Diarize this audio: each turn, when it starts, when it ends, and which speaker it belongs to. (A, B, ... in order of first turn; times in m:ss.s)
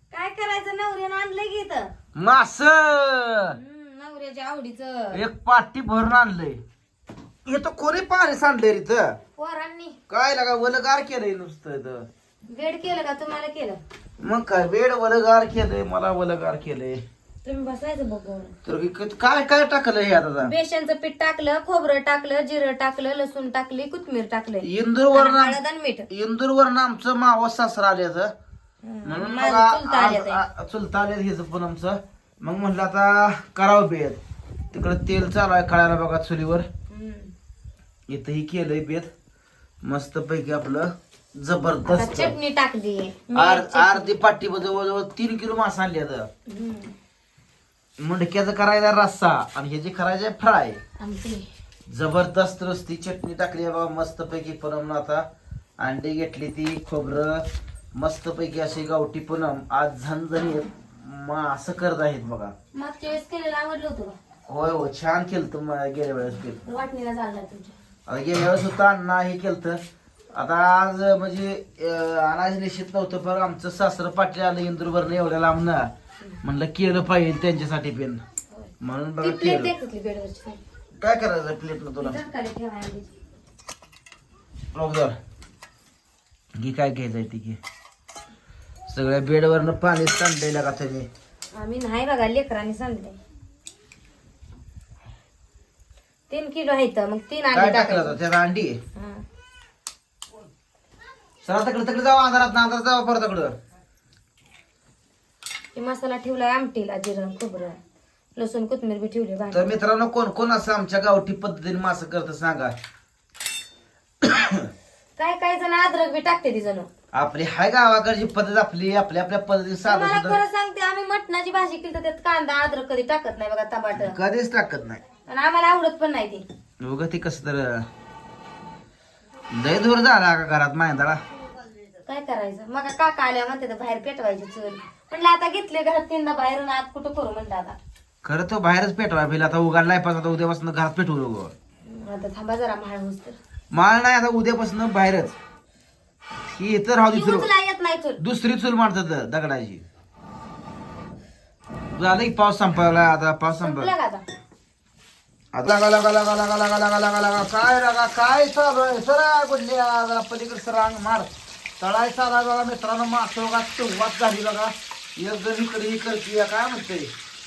0:00.1-0:01.9 A
0:02.2-0:03.6 B
0:03.5-0:05.2 A
0:05.1-0:06.6 B
0:07.4-0:09.2 B
0:09.4-0:10.0 A
0:10.1-0:12.1 B
0:12.5-0:13.8 A
0:14.2-0:17.0 B
0:17.4-0:18.5 A
0:18.6-0:20.5 B
0:20.4-0:26.1 A
0:24.6-0:25.6 B
0:26.1-0:28.3 B
0:28.8-0:30.4 A
0:29.0-0:34.2 B
0:34.7-0:36.7 B
0:36.9-0:37.3 A
0:38.1-0:39.1 B
0:39.8-0:42.3 B
0:41.8-0:44.1 A
0:43.3-0:46.3 B
0:46.5-0:46.9 A
0:48.0-0:50.8 B
0:51.0-0:51.5 A
0:51.9-0:55.2 B
0:55.8-1:02.5 B
1:02.7-1:04.2 A
1:04.5-1:06.6 B
1:06.6-1:07.7 A
1:08.1-1:09.8 B
1:10.3-1:15.9 B
1:16.4-1:18.2 B
1:18.5-1:20.6 A
1:18.8-1:19.7 B
1:21.0-1:22.2 B
1:22.0-1:23.1 A
1:24.7-1:25.2 B
1:26.6-1:27.6 B
1:28.9-1:31.1 B
1:31.5-1:33.2 A
1:36.3-1:38.2 A
1:37.5-1:38.8 B
1:39.0-1:39.2 A
1:41.4-1:43.5 B
1:45.7-1:47.8 A
1:48.4-1:49.7 A
1:49.5-1:52.7 B
1:54.2-1:54.7 B
1:55.2-1:56.9 A
1:57.1-2:00.4 B
1:59.8-2:04.2 A
2:04.0-2:05.0 B
2:05.3-2:06.4 A
2:06.8-2:07.8 B
2:09.5-2:11.2 B
2:12.0-2:17.8 A
2:18.2-2:21.5 B
2:21.9-2:23.4 A
2:23.7-2:25.3 B
2:26.5-2:27.5 B
2:27.1-2:28.2 A
2:28.2-2:29.8 B
2:31.9-2:33.9 B
2:33.6-2:34.2 A
2:35.5-2:41.3 B
2:41.8-2:47.1 B